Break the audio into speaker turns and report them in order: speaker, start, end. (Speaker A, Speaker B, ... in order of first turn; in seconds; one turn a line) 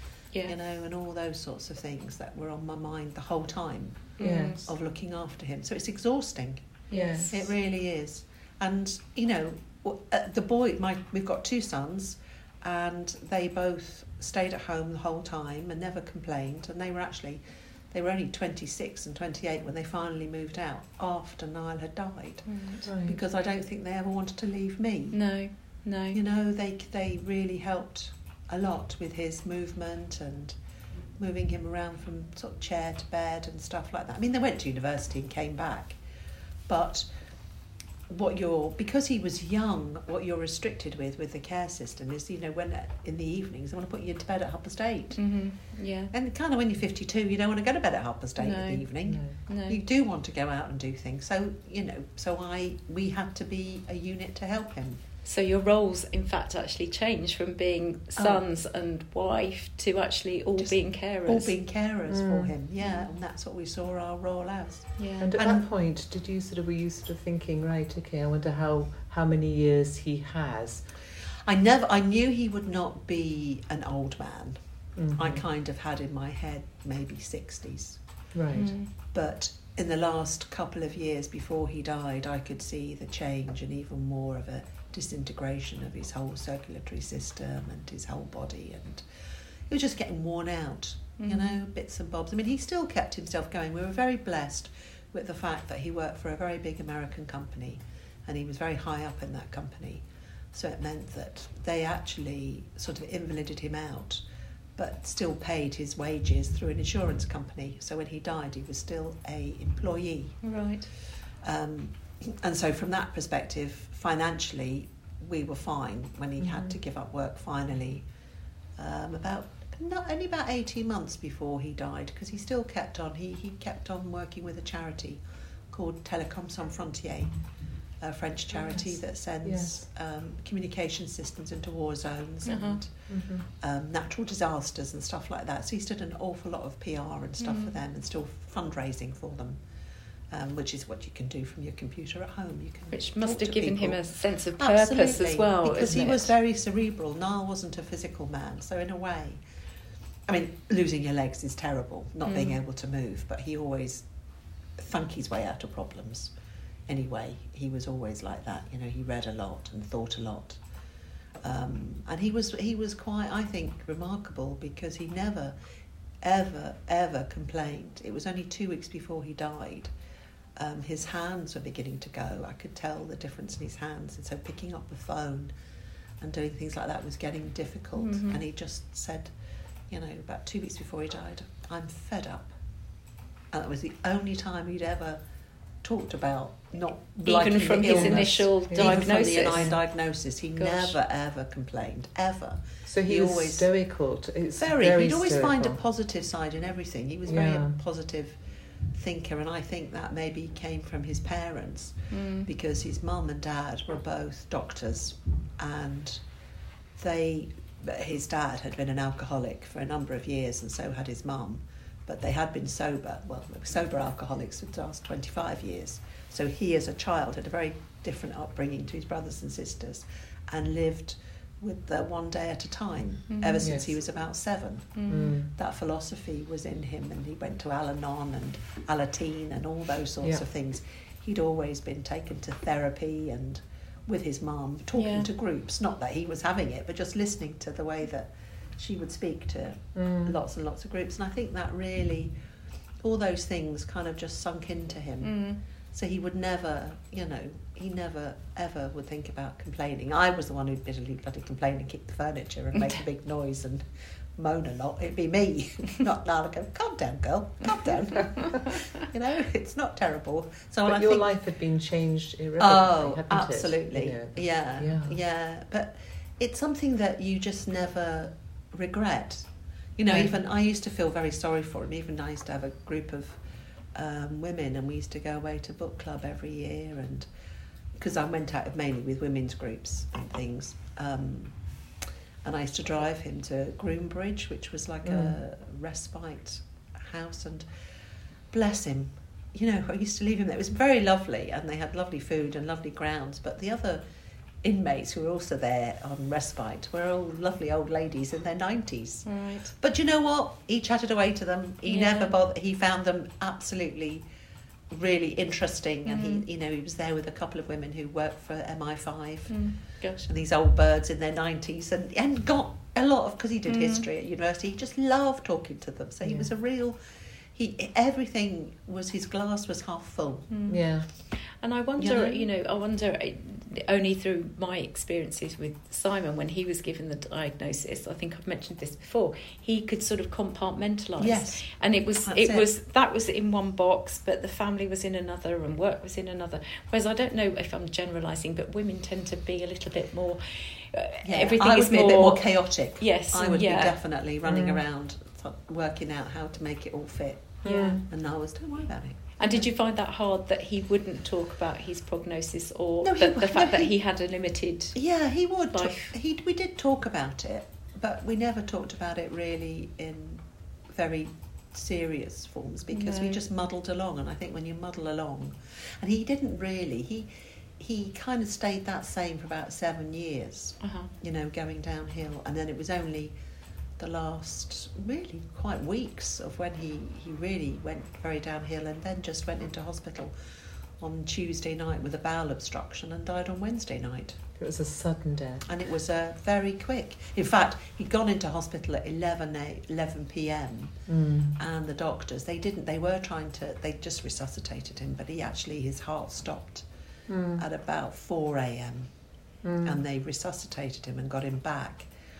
Speaker A: 0.4-25.2
Speaker B: 4.2-4.7
Speaker C: 4.2-4.6
Speaker B: 6.9-7.3
Speaker C: 6.9-7.3
Speaker B: 22.4-22.8
Speaker C: 22.8-23.2
Speaker B: 25.1-26.2
Speaker A: 26.1-30.6
Speaker A: 31.2-36.0
Speaker A: 36.7-37.1
Speaker A: 38.1-45.2
Speaker B: 45.2-46.1
Speaker A: 46.1-55.0
Speaker B: 48.4-49.8
Speaker C: 49.1-49.4
Speaker B: 55.2-61.5
Speaker A: 60.6-65.6
Speaker C: 62.1-62.5
Speaker B: 62.8-63.0
Speaker B: 65.0-65.3
Speaker C: 65.2-70.8
Speaker A: 71.4-74.6
Speaker C: 75.0-75.4
Speaker A: 75.1-78.0
Speaker C: 78.3-78.7
Speaker B: 78.5-78.9
Speaker A: 78.9-89.0
Speaker A: 89.7-104.2
Speaker B: 91.2-91.6
Speaker A: 104.8-110.4
Speaker B: 110.4-110.9
Speaker A: 111.4-118.1
Speaker C: 116.4-116.8
Speaker A: 118.8-127.4
Speaker A: 128.0-139.6
Speaker C: 129.4-129.8
Speaker B: 132.4-132.8
Speaker C: 133.1-133.5
Speaker B: 137.4-137.7
Speaker A: 140.3-149.4
Speaker B: 142.9-146.3
Speaker A: 150.3-154.1
Speaker B: 152.2-152.6
Speaker A: 154.8-156.3
Speaker A: 156.9-160.6
Speaker A: 161.4-165.6
Speaker A: 166.2-169.9
Speaker A: 170.6-175.5
Speaker A: 176.2-179.3
Speaker B: 177.9-178.4
Speaker A: 179.9-182.5
Speaker A: 183.5-185.2
Speaker A: 185.8-193.7
Speaker B: 187.2-190.0
Speaker C: 187.8-189.7
Speaker B: 190.6-190.9
Speaker C: 192.8-195.8
Speaker A: 194.6-198.4
Speaker C: 197.2-197.8
Speaker A: 198.9-206.2
Speaker B: 202.1-202.5
Speaker A: 206.9-242.3
Speaker B: 223.3-223.7
Speaker C: 223.6-223.9
Speaker B: 224.9-225.4
Speaker C: 225.1-225.5
Speaker B: 234.9-235.3
Speaker C: 239.9-240.4
Speaker A: 243.0-253.8
Speaker B: 245.2-245.6
Speaker A: 254.3-261.3
Speaker C: 260.9-265.2
Speaker A: 262.6-273.4
Speaker C: 270.1-270.3
Speaker A: 273.9-277.3
Speaker A: 277.9-281.7
Speaker A: 282.4-287.7
Speaker C: 285.0-285.4
Speaker A: 288.5-294.0
Speaker A: 294.6-304.2
Speaker B: 299.2-299.7
Speaker B: 301.9-302.3
Speaker A: 304.9-317.0
Speaker B: 306.1-306.4
Speaker B: 309.5-310.3
Speaker B: 313.6-314.1
Speaker C: 316.2-316.5
Speaker A: 317.5-320.5
Speaker B: 320.5-343.9
Speaker C: 320.7-321.1
Speaker A: 322.0-322.5
Speaker A: 331.2-332.7
Speaker A: 341.2-349.7
Speaker C: 344.4-344.8
Speaker C: 347.6-348.0
Speaker B: 347.6-348.0
Speaker B: 349.4-355.1
Speaker A: 353.0-353.9
Speaker A: 354.9-373.4
Speaker B: 355.7-356.1
Speaker B: 362.9-363.4
Speaker B: 370.8-371.1
Speaker A: 374.0-380.3
Speaker A: 381.0-384.4
Speaker C: 384.6-385.6
Speaker A: 385.6-396.9
Speaker C: 391.1-391.6
Speaker C: 397.3-397.6
Speaker A: 397.6-399.1
Speaker C: 399.6-400.0
Speaker A: 399.8-402.1